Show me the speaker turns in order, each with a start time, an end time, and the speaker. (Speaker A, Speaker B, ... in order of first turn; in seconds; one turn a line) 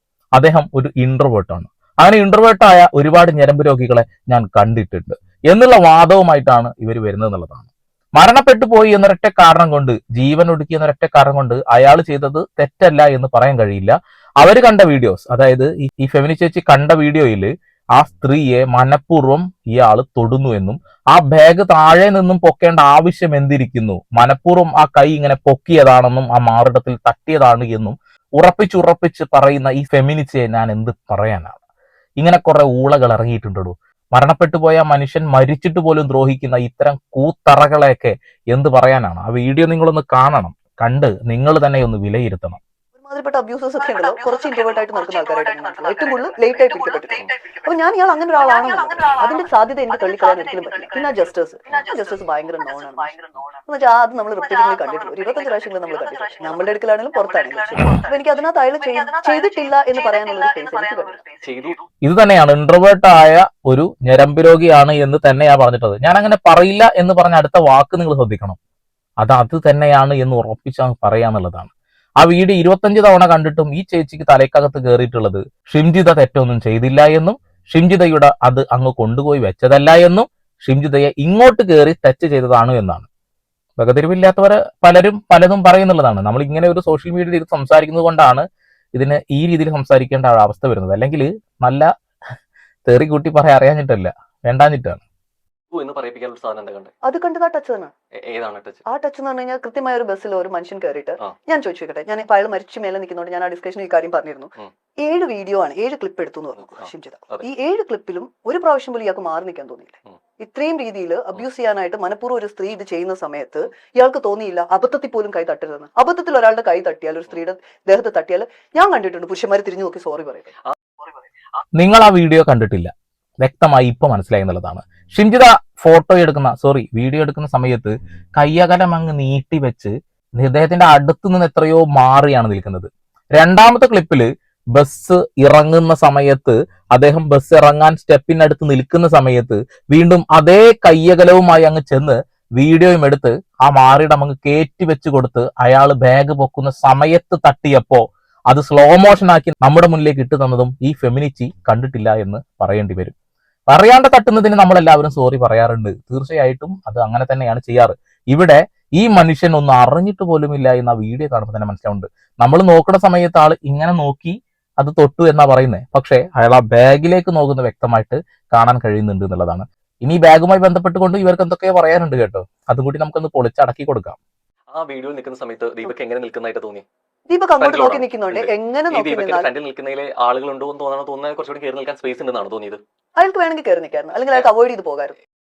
Speaker A: 0.3-31.6
Speaker A: 32.2-42.6
Speaker B: 43.0-53.1
Speaker B: 53.7-61.2
Speaker C: 61.4-61.8
Speaker A: 62.0-68.6
Speaker A: 69.2-83.1
Speaker A: 83.8-91.9
Speaker A: 92.8-95.0
Speaker C: 95.7-96.9
Speaker B: 97.0-97.9
Speaker C: 98.2-98.8
Speaker B: 98.8-120.5
Speaker C: 106.5-107.5
Speaker A: 121.7-153.1
Speaker A: 153.7-174.2
Speaker C: 174.7-176.8
Speaker B: 177.3-179.5
Speaker C: 177.6-182.8
Speaker B: 183.2-185.2